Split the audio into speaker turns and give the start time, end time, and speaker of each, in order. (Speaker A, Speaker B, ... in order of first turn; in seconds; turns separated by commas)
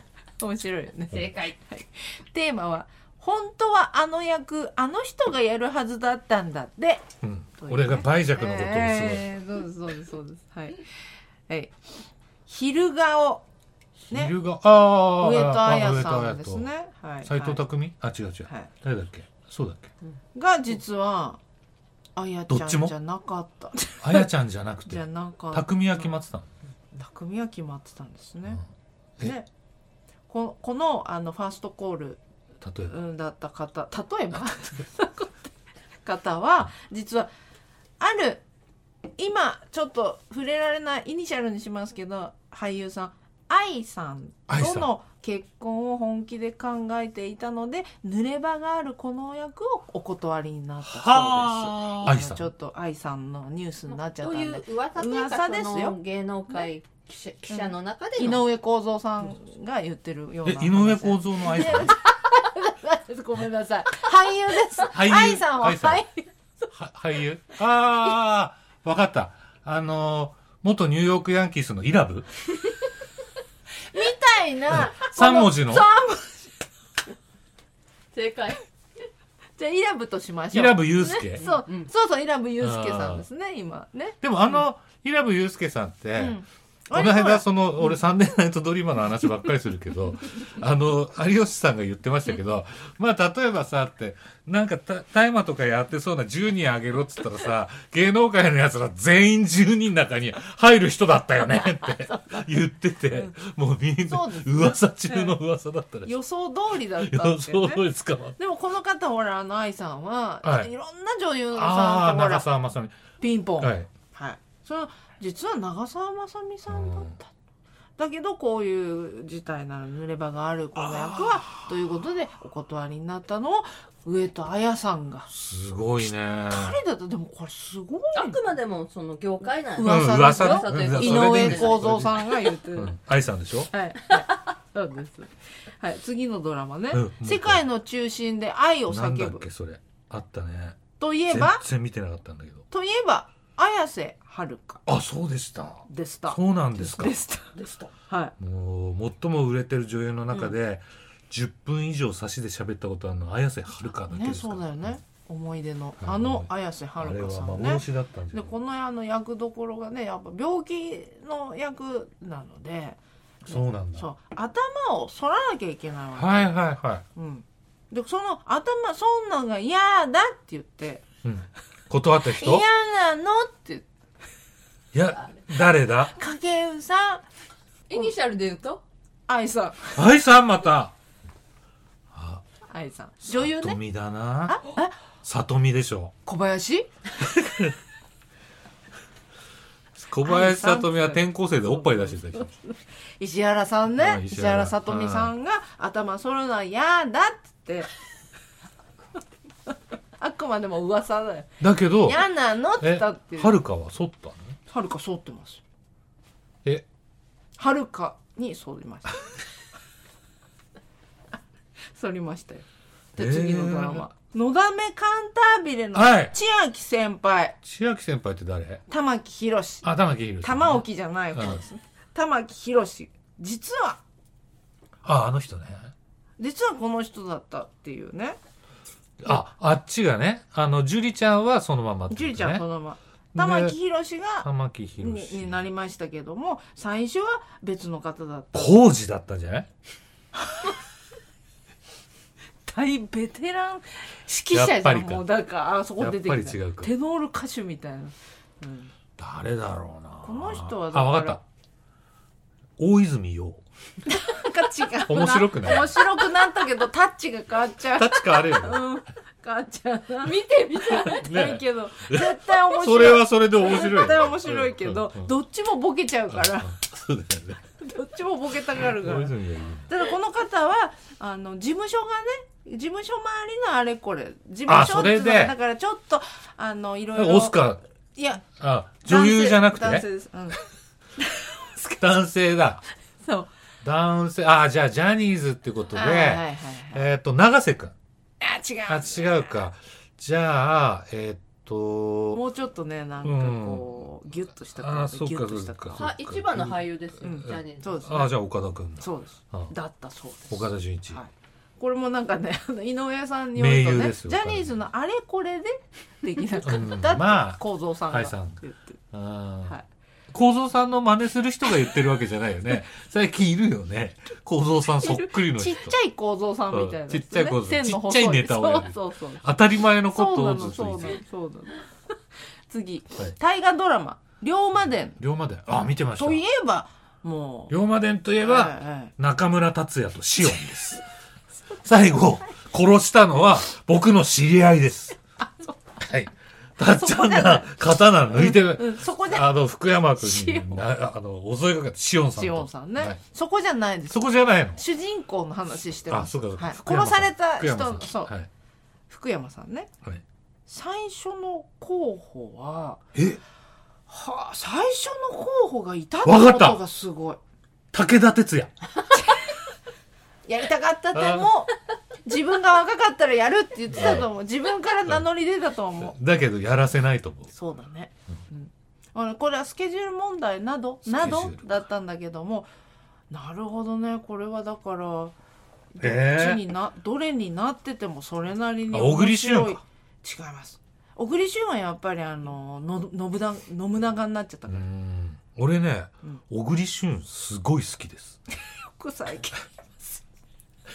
Speaker A: 0.4-7.0, Speaker B: 1.1-1.5, Speaker C: 7.2-9.3, Speaker A: 7.6-10.9, Speaker A: 11.5-11.8, Speaker A: 12.5-13.4, Speaker C: 14.0-16.7, Speaker A: 15.2-17.6, Speaker C: 17.2-19.9, Speaker A: 20.3-21.4, Speaker A: 22.1-24.3, Speaker C: 22.5-22.9, Speaker C: 24.0-26.5, Speaker A: 24.9-26.1, Speaker A: 26.9-28.6, Speaker A: 29.2-29.5, Speaker A: 30.3-32.2, Speaker C: 32.6-33.0, Speaker A: 32.9-35.5, Speaker A: 36.0-37.3, Speaker A: 38.0-38.4, Speaker A: 39.2-56.0, Speaker C: 44.5-44.9, Speaker C: 50.8-52.4, Speaker B: 53.9-58.4, Speaker A: 57.5-66.2, Speaker C: 60.4-62.0, Speaker C: 64.8-66.0, Speaker C: 66.7-72.2, Speaker A: 73.9-76.5, Speaker C: 74.7-75.9, Speaker B: 78.1-78.6, Speaker A: 79.6-84.6, Speaker C: 80.5-81.5, Speaker B: 81.4-81.9, Speaker C: 82.6-83.2, Speaker C: 84.2-86.4, Speaker A: 86.2-87.5, Speaker C: 86.9-106.1, Speaker A: 103.1-103.3, Speaker A: 104.1-105.3, Speaker A: 106.0-107.8, Speaker C: 107.0-108.4, Speaker A: 108.4-112.5, Speaker C: 110.4-110.7, Speaker C: 111.5-113.0, Speaker A: 113.2-117.3, Speaker C: 113.6-113.9, Speaker C: 116.7-117.2, Speaker A: 118.0-125.3, Speaker C: 120.8-121.6, Speaker C: 125.3-126.8, Speaker A: 126.5-128.4, Speaker B: 128.1-131.8, Speaker A: 129.7-133.0, Speaker C: 129.8-133.7, Speaker A: 133.7-139.4, Speaker C: 136.9-137.6, Speaker C: 138.9-142.6, Speaker A: 141.0-141.6, Speaker A: 142.7-144.8, Speaker C: 144.8-147.2, Speaker A: 145.9-147.5, Speaker B: 147.5-147.9, Speaker A: 148.1-148.3, Speaker C: 148.4-155.0, Speaker A: 154.0-166.5, Speaker C: 156.0-158.5, Speaker C: 163.4-164.1, Speaker C: 166.2-167.0, Speaker A: 167.1-171.0, Speaker C: 171.2-172.6, Speaker A: 172.3-173.8, Speaker C: 174.9-176.1, Speaker A: 176.2-177.2, Speaker B: 177.9-178.8, Speaker A: 179.3-180.0, Speaker C: 179.9-180.9, Speaker C: 182.1-182.4, Speaker A: 182.7-183.8, Speaker C: 183.2-184.6, Speaker A: 184.5-185.0, Speaker C: 185.2-186.1, Speaker A: 186.2-186.9, Speaker C: 187.2-187.7, Speaker C: 189.9-192.5, Speaker A: 190.2-191.2, Speaker A: 192.1-197.9, Speaker C: 194.0-195.3, Speaker A: 200.2-203.6, Speaker C: 201.6-202.2, Speaker C: 202.8-204.6, Speaker A: 204.7-205.6, Speaker A: 207.6-209.3, Speaker A: 211.9-212.6, Speaker C: 213.2-214.1, Speaker A: 213.2-217.6, Speaker C: 215.9-216.3, Speaker C: 217.6-218.8, Speaker A: 218.9-219.9, Speaker C: 219.8-221.6, Speaker A: 220.4-224.0, Speaker C: 225.0-225.9, Speaker A: 226.4-228.4, Speaker C: 229.2-232.6, Speaker A: 232.1-234.5, Speaker C: 233.3-233.8, Speaker C: 234.4-235.7, Speaker A: 235.0-238.8, Speaker C: 238.5-239.7, Speaker A: 240.4-240.7, Speaker A: 242.7-248.9, Speaker C: 244.5-245.2, Speaker C: 246.0-246.9, Speaker C: 249.2-251.4, Speaker A: 250.2-251.4, Speaker C: 252.8-253.6, Speaker A: 254.1-266.8, Speaker C: 255.0-256.0, Speaker C: 257.9-259.0, Speaker B: 260.2-261.3, Speaker C: 261.0-265.3, Speaker C: 266.3-267.6, Speaker A: 267.8-269.3, Speaker C: 268.8-269.9, Speaker A: 269.9-277.6, Speaker C: 274.7-275.5, Speaker C: 277.1-277.8, Speaker A: 278.1-278.4, Speaker C: 278.5-280.1, Speaker A: 279.0-280.6, Speaker A: 281.2-281.5, Speaker C: 281.8-282.8, Speaker A: 283.2-283.5, Speaker C: 283.8-287.9, Speaker A: 285.9-287.1, Speaker A: 288.4-289.6, Speaker C: 288.9-292.4, Speaker A: 292.3-296.1, Speaker C: 293.2-294.0, Speaker C: 294.8-299.7, Speaker B: 295.9-298.0, Speaker A: 297.2-298.3, Speaker A: 299.0-309.0, Speaker C: 300.5-301.2, Speaker C: 303.6-304.8, Speaker C: 306.6-308.6, Speaker C: 309.1-309.8, Speaker C: 310.3-315.9, Speaker A: 315.0-319.4, Speaker C: 316.7-321.2, Speaker A: 320.0-321.8, Speaker A: 322.7-325.2, Speaker C: 325.2-326.4, Speaker A: 325.7-327.7, Speaker C: 327.7-331.0, Speaker A: 328.4-329.1, Speaker C: 331.8-335.2, Speaker A: 335.4-335.8, Speaker C: 336.0-343.2, Speaker A: 336.9-337.8, Speaker A: 338.3-339.6, Speaker A: 340.2-340.8, Speaker A: 342.4-348.3, Speaker C: 344.1-344.8, Speaker C: 346.1-348.5, Speaker A: 349.1-349.9, Speaker A: 350.7-353.0, Speaker C: 353.1-353.4, Speaker A: 354.1-357.4, Speaker C: 356.2-356.8, Speaker C: 357.9-358.7, Speaker A: 359.1-359.5, Speaker A: 360.5-366.1, Speaker C: 361.1-361.5, Speaker C: 363.9-364.3, Speaker C: 366.0-367.5, Speaker A: 367.5-372.7, Speaker C: 371.1-371.8, Speaker A: 373.3-375.3, Speaker A: 375.9-384.9, Speaker C: 376.0-376.6, Speaker C: 378.9-379.8, Speaker C: 384.7-388.4, Speaker A: 388.6-390.2